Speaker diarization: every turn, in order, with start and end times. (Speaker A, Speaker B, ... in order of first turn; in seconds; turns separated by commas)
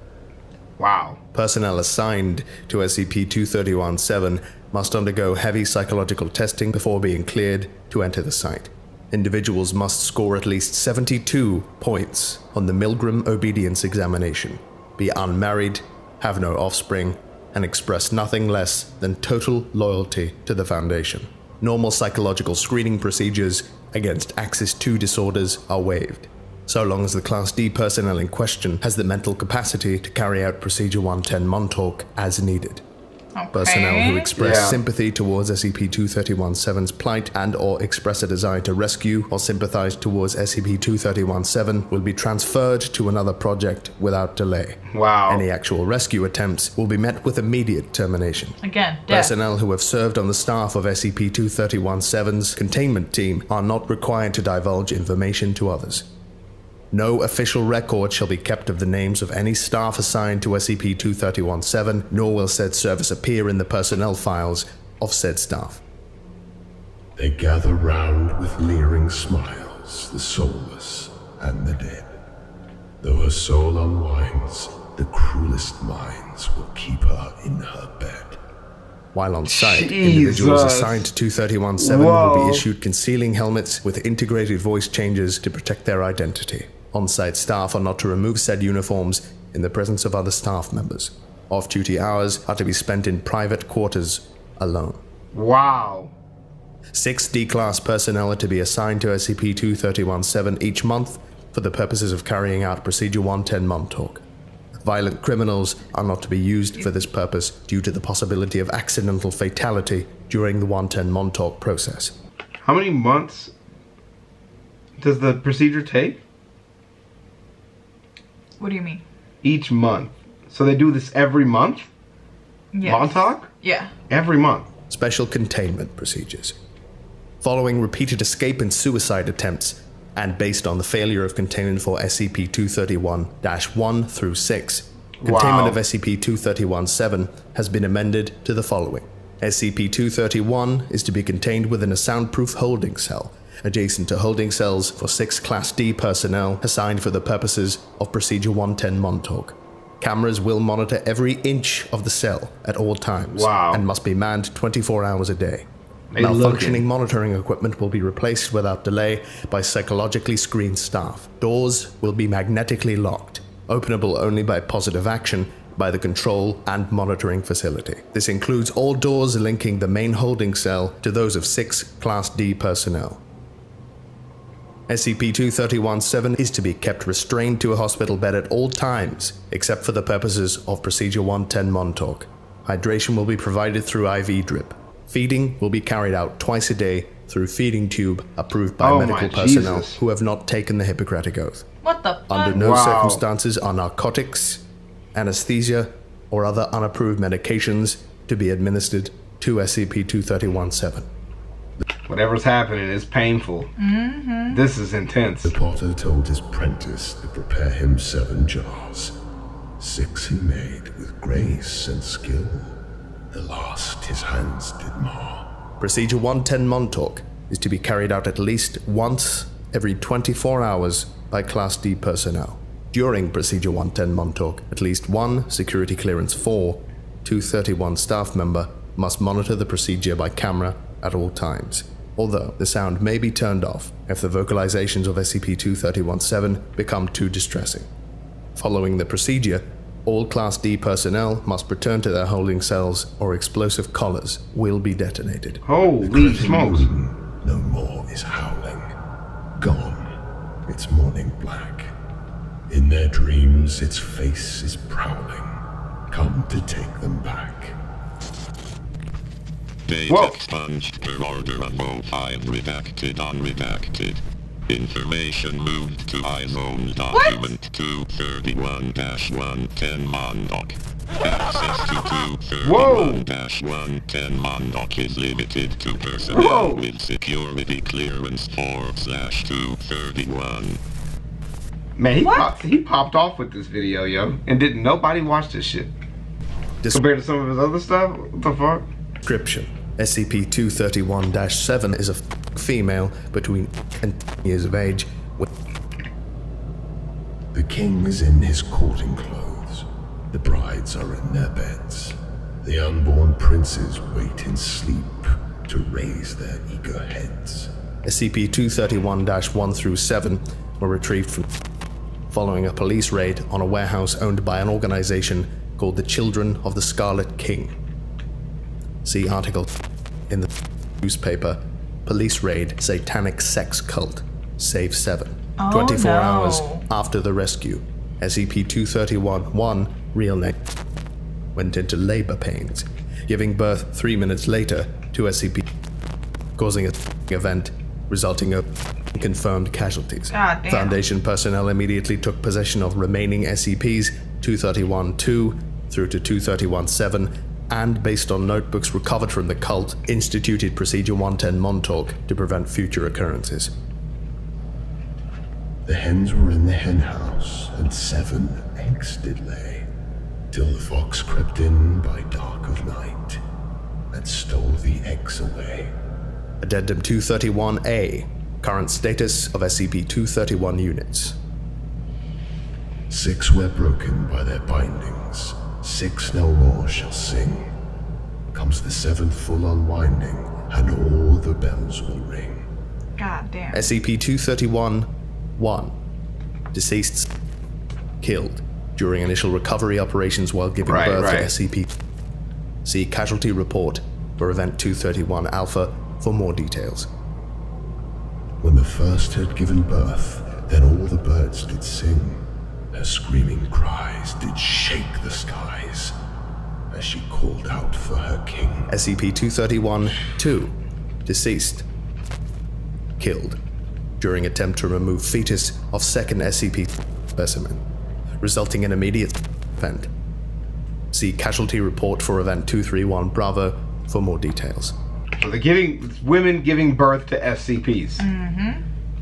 Speaker A: 0.8-1.2, Speaker B: 1.3-32.8, Speaker C: 33.4-34.3, Speaker B: 33.5-56.1, Speaker A: 34.4-34.8, Speaker A: 44.9-45.5, Speaker C: 48.6-49.3, Speaker B: 56.9-65.8, Speaker D: 67.2-72.2, Speaker D: 73.0-78.4, Speaker B: 79.1-95.0, Speaker A: 79.5-81.1, Speaker A: 81.8-82.7, Speaker A: 95.3-96.1, Speaker B: 96.9-104.2, Speaker B: 104.8-112.1, Speaker A: 112.6-113.5, Speaker A: 115.0-116.2, Speaker C: 118.6-119.0, Speaker A: 119.4-121.9, Speaker C: 122.7-123.9, Speaker A: 122.8-123.5, Speaker A: 124.1-124.7, Speaker B: 124.9-126.6, Speaker B: 127.4-155.7, Speaker A: 135.2-135.8, Speaker A: 153.3-153.8, Speaker A: 156.1-156.8, Speaker B: 156.2-173.2, Speaker B: 174.9-191.7, Speaker A: 188.8-190.0, Speaker C: 191.8-192.6, Speaker B: 192.3-194.6, Speaker A: 192.5-193.2, Speaker B: 195.1-201.1, Speaker A: 202.1-203.7, Speaker C: 203.8-204.6, Speaker A: 204.5-205.5, Speaker D: 205.4-209.2, Speaker D: 209.8-215.5, Speaker B: 215.8-237.9, Speaker B: 238.6-245.6, Speaker A: 245.7-246.9, Speaker D: 246.0-248.9, Speaker D: 249.6-251.9, Speaker D: 252.7-257.8, Speaker E: 259.9-280.8, Speaker A: 260.1-260.4, Speaker A: 272.6-273.2, Speaker A: 276.3-276.8, Speaker A: 282.0-285.9, Speaker C: 282.2-282.5, Speaker A: 286.9-288.9, Speaker B: 289.2-295.5, Speaker D: 297.5-307.7, Speaker B: 308.0-311.5, Speaker B: 312.3-317.8, Speaker B: 319.0-319.7, Speaker B: 321.0-330.6, Speaker C: 325.6-326.8, Speaker B: 331.6-335.7, Speaker B: 336.6-353.7, Speaker C: 340.3-341.0, Speaker D: 355.9-359.9, Speaker D: 360.5-363.4, Speaker D: 364.1-365.9, Speaker B: 366.6-371.4, Speaker D: 373.1-377.7, Speaker D: 378.5-382.7, Speaker C: 383.2-383.8, Speaker B: 383.7-385.9, Speaker B: 386.7-387.3, Speaker B: 388.2-391.9, Speaker A: 390.8-391.5, Speaker B: 392.8-397.1, Speaker D: 398.6-406.2, Speaker D: 406.9-408.9, Speaker B: 408.9-410.7, Speaker B: 411.3-411.9, Speaker B: 413.2-413.6, Speaker B: 414.2-417.8, Speaker B: 418.4-420.1, Speaker B: 421.1-424.9, Speaker A: 425.4-428.3, Speaker C: 428.2-428.8